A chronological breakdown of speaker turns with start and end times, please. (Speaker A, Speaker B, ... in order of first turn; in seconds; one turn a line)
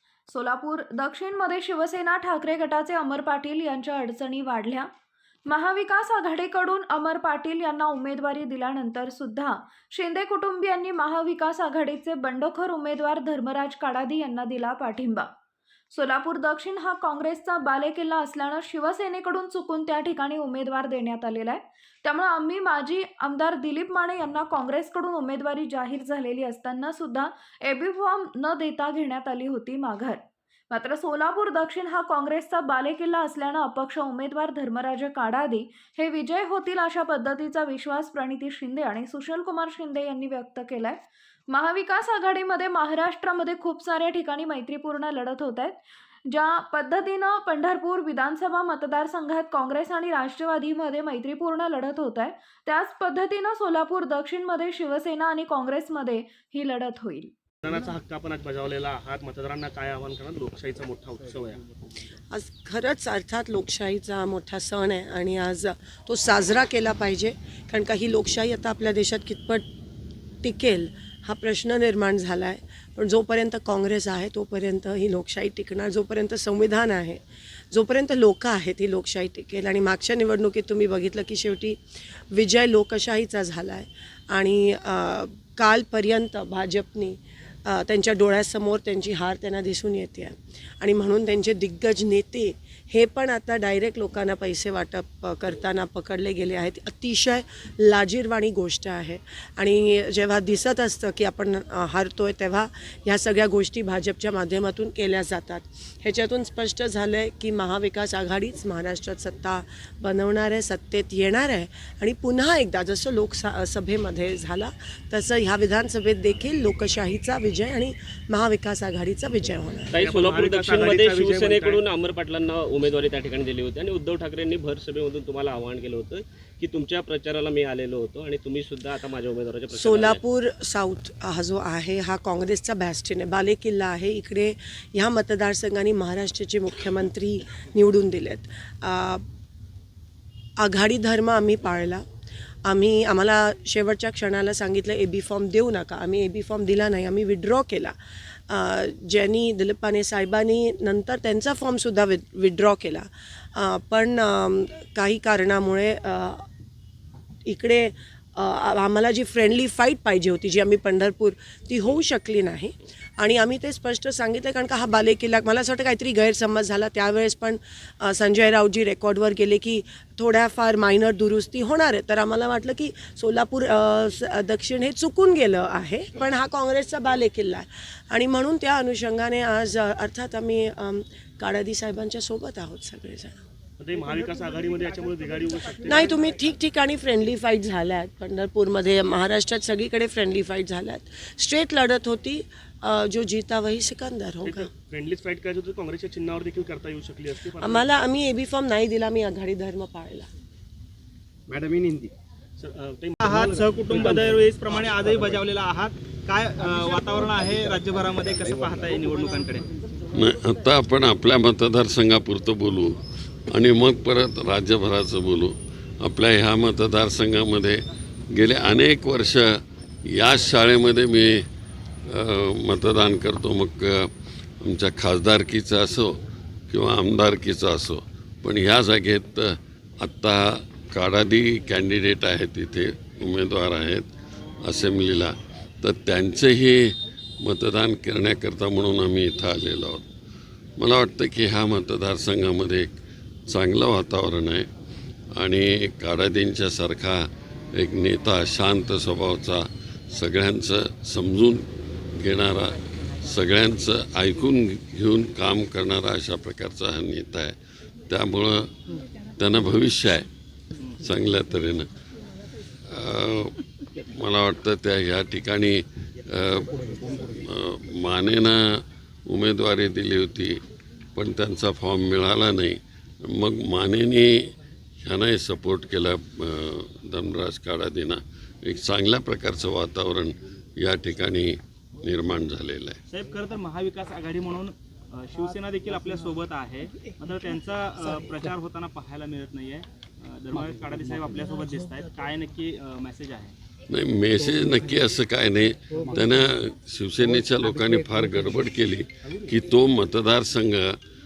Speaker A: 0.3-4.9
Speaker A: 5.5-15.3
Speaker A: 15.9-57.3
Speaker B: 57.6-61.6
Speaker C: 62.3-69.7
Speaker C: 70.4-77.2
Speaker C: 77.7-81.8
Speaker C: 82.3-119.9
Speaker D: 119.9-130.2
Speaker B: 120.0-121.9
Speaker C: 129.7-139.2
Speaker C: 140.6-142.0
Speaker C: 142.7-147.9
Speaker C: 148.5-156.5
Speaker C: 157.5-183.4
Speaker B: 183.8-186.2
Speaker C: 185.8-194.7
Speaker B: 194.4-197.9
Speaker C: 197.6-200.3
Speaker B: 201.5-201.9
Speaker B: 202.6-205.4
Speaker E: 203.2-209.7
Speaker F: 210.1-213.0
Speaker F: 213.5-217.8
Speaker F: 218.3-219.5
Speaker F: 220.1-221.4
Speaker F: 222.1-224.1
Speaker F: 224.6-226.2
Speaker F: 226.7-234.1
Speaker F: 234.6-236.8
Speaker F: 237.4-240.1
Speaker F: 240.8-242.9
Speaker F: 243.5-244.7
Speaker F: 245.4-257.6
Speaker F: 258.1-258.7
Speaker F: 259.4-260.3
Speaker F: 261.0-261.9
Speaker F: 262.9-266.7
Speaker F: 267.2-270.6
Speaker F: 271.2-274.4
Speaker F: 275.0-283.0
Speaker E: 283.1-293.6
Speaker F: 293.9-301.0